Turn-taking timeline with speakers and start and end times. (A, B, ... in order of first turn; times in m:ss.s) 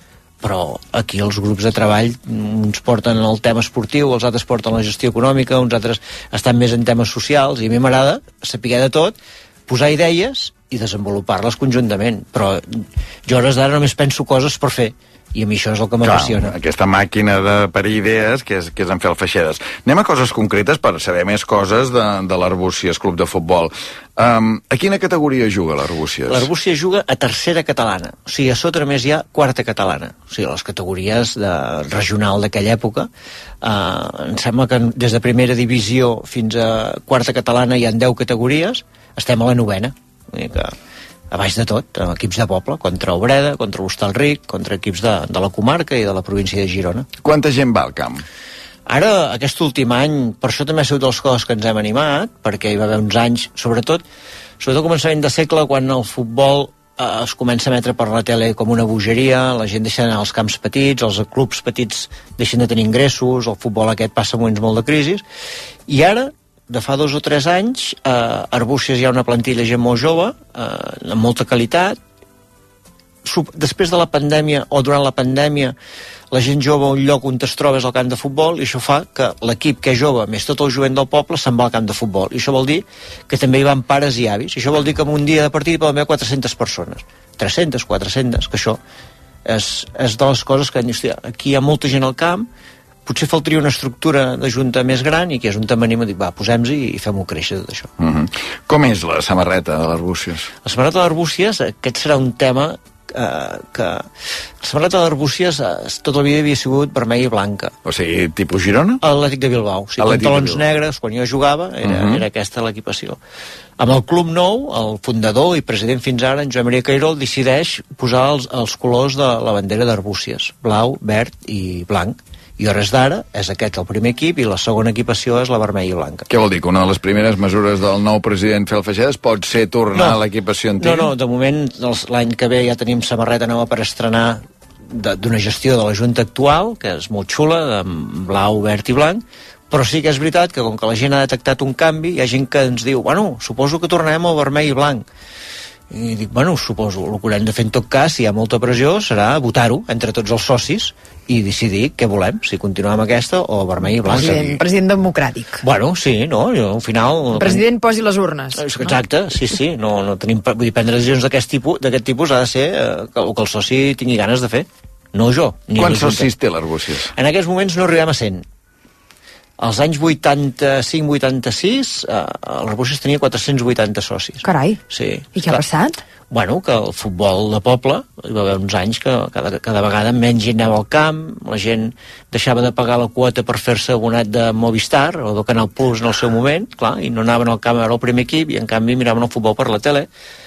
0:00.4-0:09.2 A
0:09.7-0:16.5 A
0:16.0-0:26.5 B
0:26.3-0:33.1 A
0:33.6-0:40.7 A
0:41.3-0:47.1 A
0:47.2-0:48.2 B
0:48.9-0:54.0 A
0:54.6-1:05.2 A
1:05.9-1:12.0 A
1:13.2-1:15.7 A
1:16.3-1:28.8 A
1:29.4-1:32.5 A
1:33.0-1:37.9 A
1:38.0-1:40.5 B
1:40.6-1:44.1 A
1:44.6-1:47.7 A
1:47.8-1:49.0 B
1:49.0-1:53.2 A
1:50.0-1:50.6 B
1:51.8-1:52.2 B
1:53.8-2:06.3 A
2:06.3-2:11.1 B
2:09.9-2:10.2 A
2:10.8-2:25.0 A
2:25.9-2:34.6 A
2:34.0-2:35.6 C
2:35.6-2:37.6 A
2:37.4-2:38.9 C
2:38.5-2:46.3 A
2:45.8-2:47.1 B
2:47.1-2:48.4 A
2:49.6-2:55.6 A
2:54.4-2:54.8 C
2:55.4-2:56.0 C
2:56.3-3:10.1 A